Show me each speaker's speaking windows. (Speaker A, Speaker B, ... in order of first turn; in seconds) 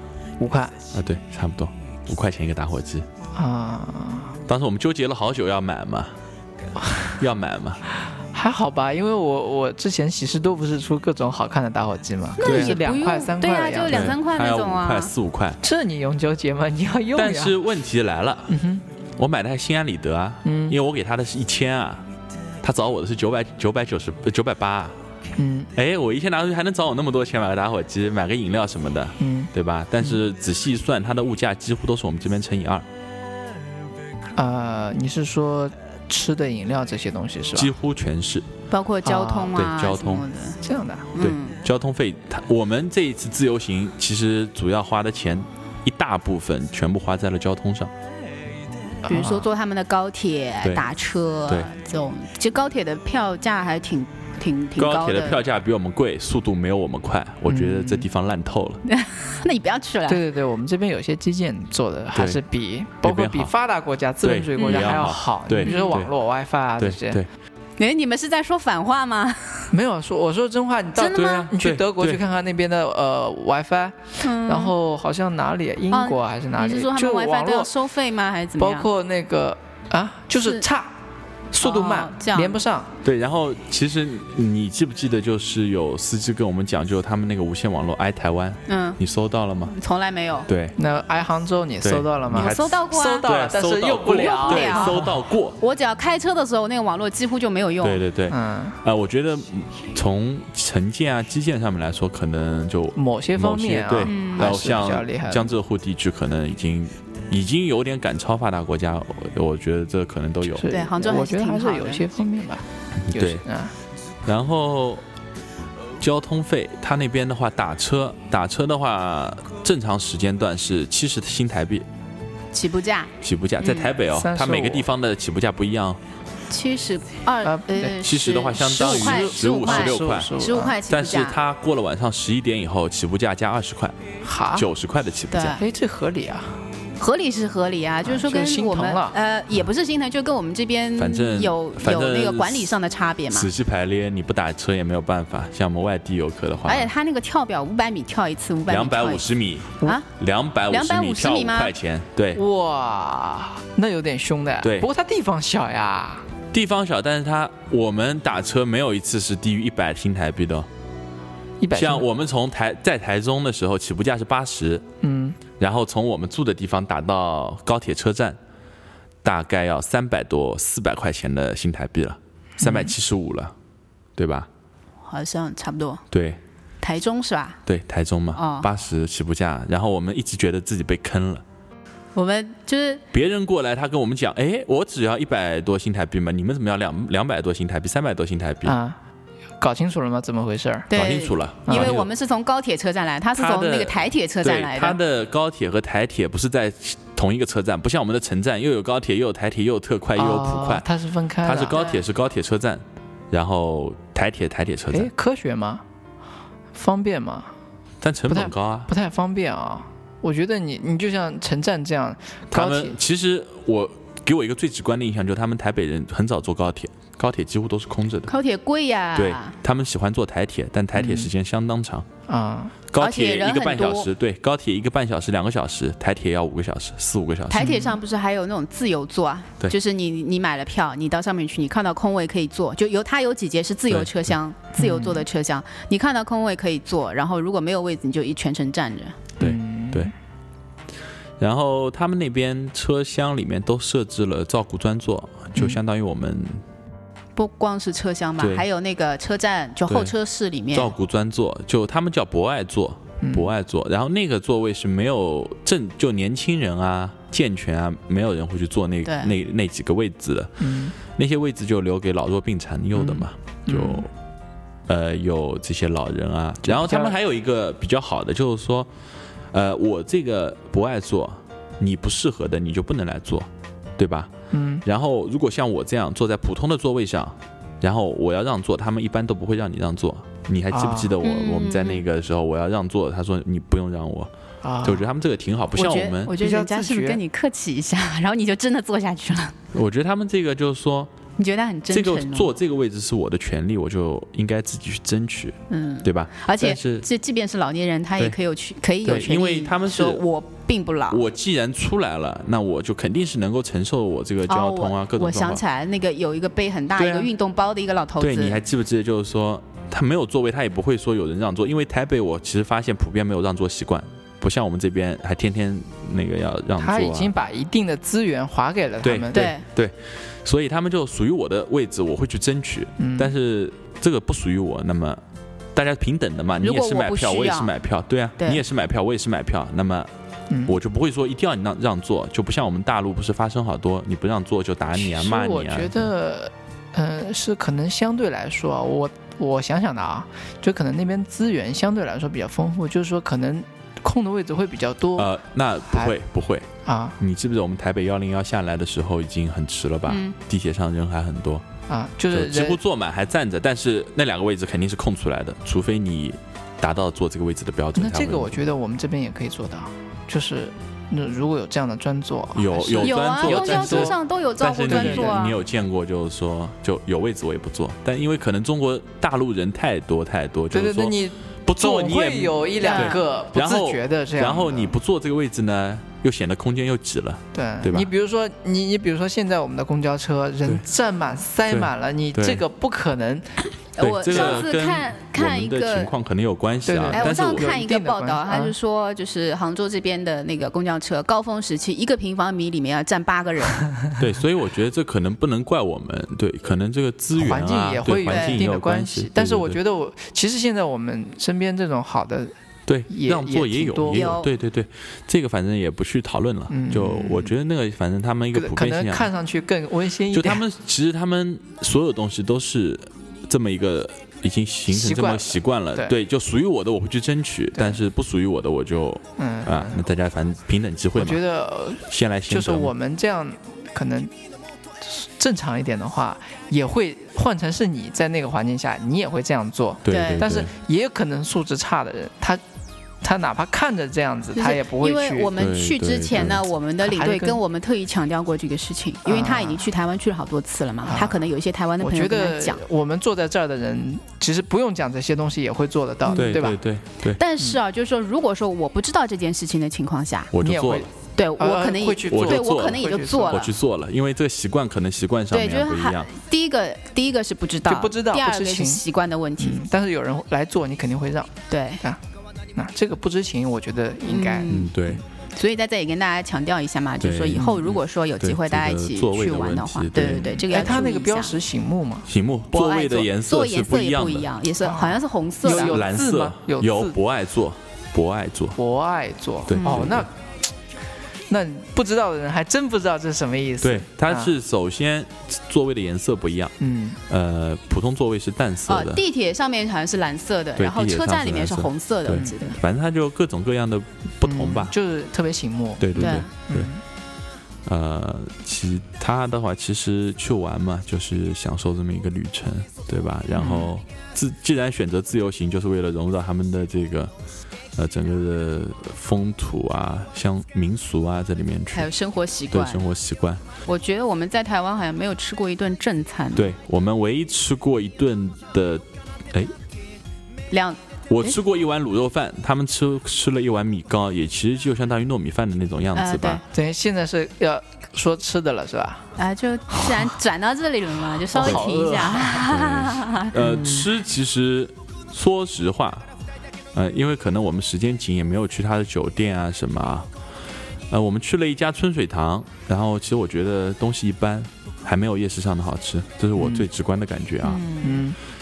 Speaker A: 0.4-0.8, 3.4-4.4, 6.8-7.2, 8.3-14.2, 15.6-17.6, 18.5-18.8, 20.4-20.8, 25.4-25.7, 29.2-29.5, 34.4-37.7, 39.0-39.6, 40.6-41.1, 49.0-49.5, 57.5-58.1, 60.1-67.2, 69.7-77.7, 78.6-81.0, 81.5-83.0, 90.8-95.2, 98.3-98.8, 103.0-105.5, 110.5-113.8, 124.1-124.9, 127.4-128.0, 128.6-130.8, 134.2-134.7, 135.5-136.6, 138.0-139.2, 152.3-156.3, 161.6-162.1, 165.0-165.4, 172.6-172.9, 188.7-189.0, 189.6-190.9, 191.7-192.0, 200.2-201.9, 204.9-205.8, 206.7-207.5, 208.3-213.0, 220.9-221.3, 222.3-222.8, 227.6-228.0, 234.8-235.3, 239.4-240.1, 253.2-253.5, 260.6-260.9, 262.9-264.1, 266.6-267.2, 274.5-274.8, 280.7-281.2, 284.6-285.1, 286.4-287.2, 316.8-319.5, 323.0-323.3, 330.5-330.8, 334.9-345.3, 346.9-347.2, 351.9-352.8, 357.9-364.2, 364.9-365.5, 370.7-374.9, 377.5-383.6, 384.3-384.6, 386.9-388.7, 397.4-402.5, 403.1-404.3, 406.7-407.5, 408.5-410.6, 414.9-416.1, 417.8-418.0, 419.4-420.0, 421.2-424.3, 425.0-432.6, 433.2-435.5, 437.0-437.6, 439.2-439.9, 441.1-446.8, 450.6-453.7, 457.9-459.0, 459.6-462.2, 462.7-465.2, 470.7-472.3, 474.8-477.2, 478.8-480.3, 481.5-484.5, 486.8-487.2, 492.3-492.6, 494.4-497.0, 503.6-503.9, 526.7-529.3, 531.5-532.5, 533.6-534.1, 546.6-546.9, 548.0-548.4
Speaker B: 0.9-3.1, 4.5-6.1, 7.2-7.8, 12.4-12.8, 13.9-15.6, 17.1-18.6, 19.2-22.1, 22.6-24.9, 25.8-32.9, 37.5-38.5, 39.5-40.2, 41.2-47.9, 54.8-58.8, 62.1-62.4, 63.0-63.5, 64.2-66.1, 66.8-67.3, 71.0-72.2, 83.0-89.7, 90.5-90.8, 91.8-95.6, 97.8-110.7, 113.0-113.4, 114.2-115.0, 116.0-121.9, 123.2-126.0, 128.0-130.3, 130.9-135.6, 141.0-142.8, 143.3-146.9, 148.7-152.4, 154.6-154.9, 156.5-160.7, 161.7-164.8, 165.6-168.4, 169.2-173.5, 174.2-174.5, 176.1-176.4, 177.7-181.4, 183.1-188.8, 190.9-192.1, 193.4-200.9, 201.4-205.1, 208.0-208.9, 212.5-218.3, 219.2-222.1, 222.9-227.7, 233.9-234.3, 239.4-240.1, 241.4-246.6, 248.4-248.7, 249.9-250.2, 250.7-264.1, 264.9-268.9, 269.5-274.3, 274.9-284.3, 284.8-286.3, 289.7-291.1, 291.9-297.1, 299.1-300.2, 301.1-305.6, 307.0-307.3, 308.2-317.3, 319.0-325.2, 325.8-330.1, 330.7-336.1, 345.2-351.7, 352.3-358.6, 362.6-378.1, 381.7-382.6, 384.0-387.8, 394.2-399.8, 402.9-409.3, 410.3-421.4, 422.1-422.9, 430.1-430.7, 435.6-436.6, 446.4-447.4, 450.5-451.1, 452.3-456.3, 464.7-465.2, 467.2-471.0, 472.3-474.5, 475.6-478.8, 479.7-480.3, 483.8-486.7, 487.3-489.2, 490.8-494.9, 496.0-496.9, 497.9-507.3, 508.0-512.1, 512.7-513.6, 516.5-519.7, 521.3-526.6, 531.6-536.3, 536.9-540.3, 541.1-547.8
Speaker C: 12.4-15.1, 38.7-40.6, 41.1-41.6, 49.1-55.4, 58.9-60.2, 64.6-65.0, 65.6-66.0, 67.8-69.7, 71.0-71.5, 74.2-74.7, 75.9-78.9, 80.4-80.7, 81.6-82.6, 88.7-89.0, 89.7-90.5, 92.3-93.2, 94.1-95.1, 95.6-98.0, 104.0-104.5, 110.7-112.0, 122.5-123.9, 126.5-131.4, 135.3-135.6, 137.0-143.5, 146.7-149.3, 149.8-150.1, 150.7-151.7, 175.0-176.0, 176.8-177.6, 178.3-178.7, 182.2-183.0, 190.9-195.0, 218.3-219.5, 223.0-224.1, 227.5-239.2, 247.4-250.9, 259.1-259.3, 281.2-282.0, 285.8-289.6, 291.4-292.5, 295.7-301.2, 304.5-308.6, 319.3-319.6, 326.6-327.7, 350.1-350.4, 363.0-365.6, 372.8-373.2, 384.0-386.1, 387.1-393.9, 398.3-398.6, 404.1-404.5, 430.1-430.5, 434.5-442.8, 446.3-446.7, 447.3-450.5, 451.4-453.7, 455.5-459.8, 461.7-462.0, 464.3-464.9, 465.6-471.6, 472.7-476.0, 479.7-480.1, 488.9-492.8, 496.1-496.5, 511.9-513.0, 513.9-516.7, 520.7-521.5, 526.1-526.6, 529.4-533.6, 547.6-548.3